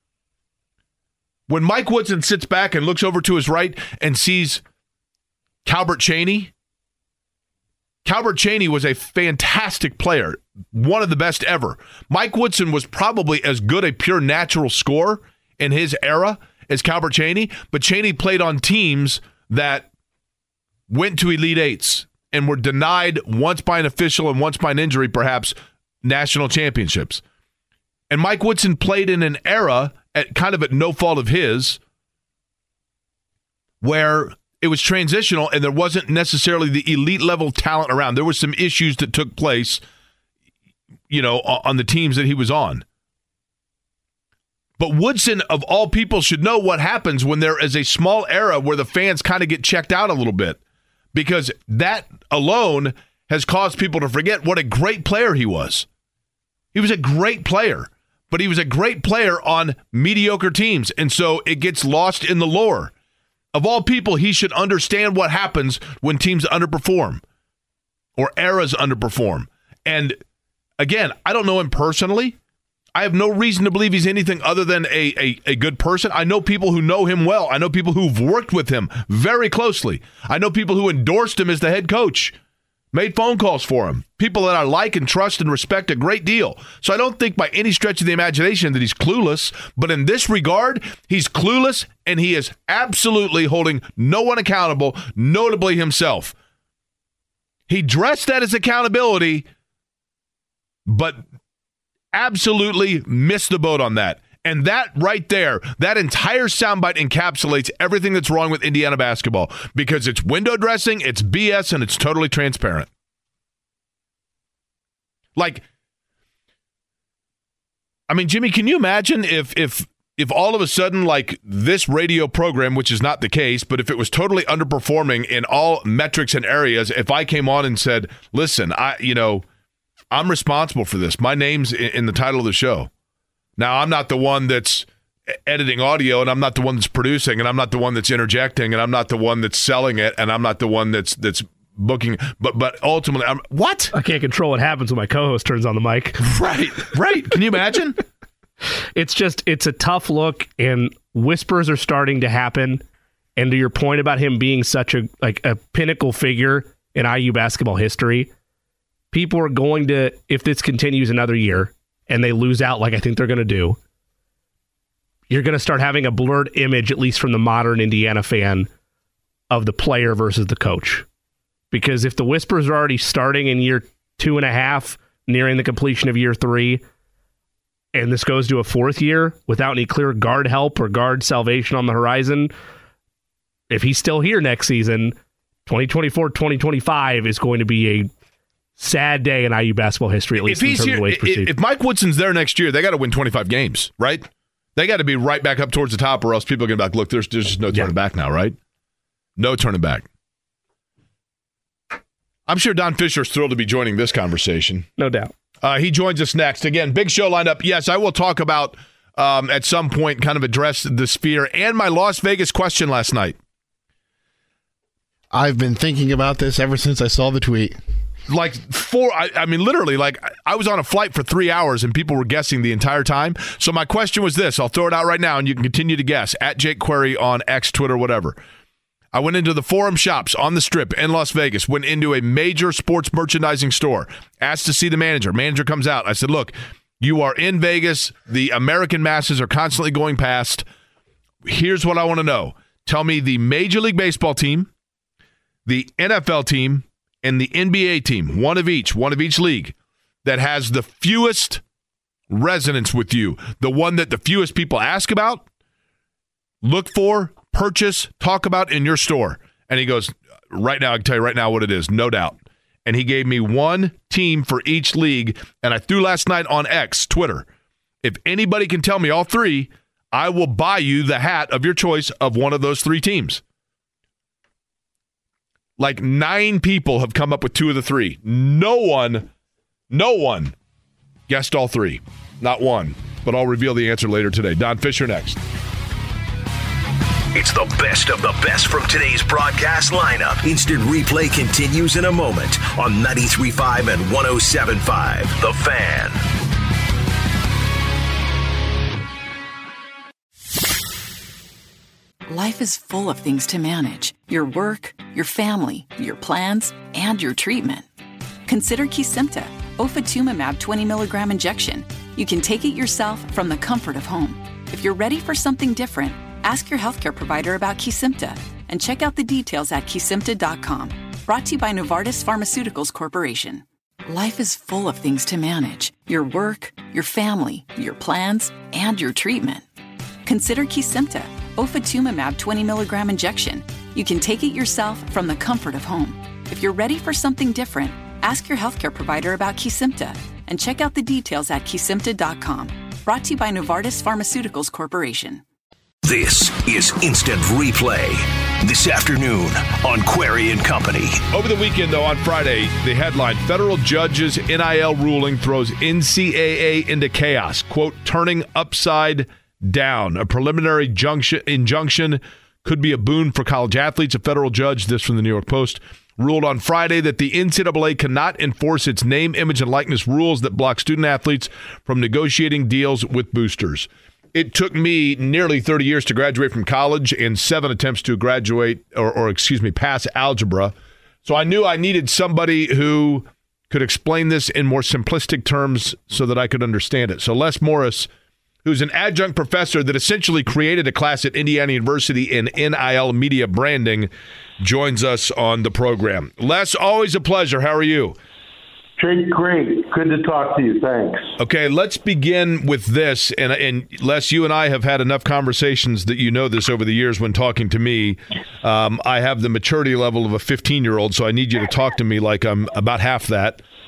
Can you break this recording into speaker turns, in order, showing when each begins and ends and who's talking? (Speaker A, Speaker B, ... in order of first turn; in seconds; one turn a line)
Speaker A: 1.5-4.6
Speaker A: 5.7-6.5
Speaker A: 8.1-19.9
Speaker A: 20.9-27.2
Speaker A: 28.1-31.8
Speaker A: 33.8-39.8
Speaker A: 41.1-42.8
Speaker A: 44.8-50.6
Speaker A: 51.1-55.9
Speaker A: 56.7-62.9
Speaker A: 63.5-67.2
Speaker A: 68.2-70.2
Speaker A: 70.8-72.4
Speaker A: 72.9-82.3
Speaker A: 82.9-96.3
Speaker A: 97.7-99.5
Speaker A: 100.9-101.2
Speaker A: 102.1-112.9
Speaker A: 115.4-115.6
Speaker A: 118.1-129.4
Speaker A: 130.1-132.9
Speaker A: 133.6-143.9
Speaker B: 143.9-146.2
Speaker A: 146.2-148.0
Speaker B: 149.0-152.8
Speaker B: 153.4-158.3
Speaker B: 159.1-163.8
Speaker B: 165.3-168.7
Speaker B: 169.5-171.1
Speaker B: 171.7-176.8
Speaker B: 177.9-182.5
Speaker B: 183.7-185.2
Speaker B: 185.7-188.1
Speaker B: 188.8-191.5
Speaker A: 190.4-198.6
Speaker A: 199.4-200.1
Speaker A: 202.5-204.9
Speaker B: 205.0-205.3
Speaker A: 205.6-213.4
Speaker C: 215.3-217.8
Speaker A: 218.3-228.4
Speaker A: 229.1-240.7
Speaker A: 241.4-244.7
Speaker A: 245.7-251.6
Speaker A: 252.3-255.4
Speaker A: 256.6-267.5
Speaker A: 268.0-273.4
Speaker A: 275.8-279.3
Speaker A: 279.9-280.6
Speaker A: 281.3-285.4
Speaker D: 287.3-296.2
Speaker E: 302.3-307.9
Speaker E: 308.5-329.6
Speaker E: 330.2-345.4
Speaker D: 346.0-351.2
Speaker A: 351.3-380.7
Speaker A: 381.2-388.1
Speaker A: 388.6-398.2
Speaker F: 399.0-401.3
Speaker A: 401.4-413.6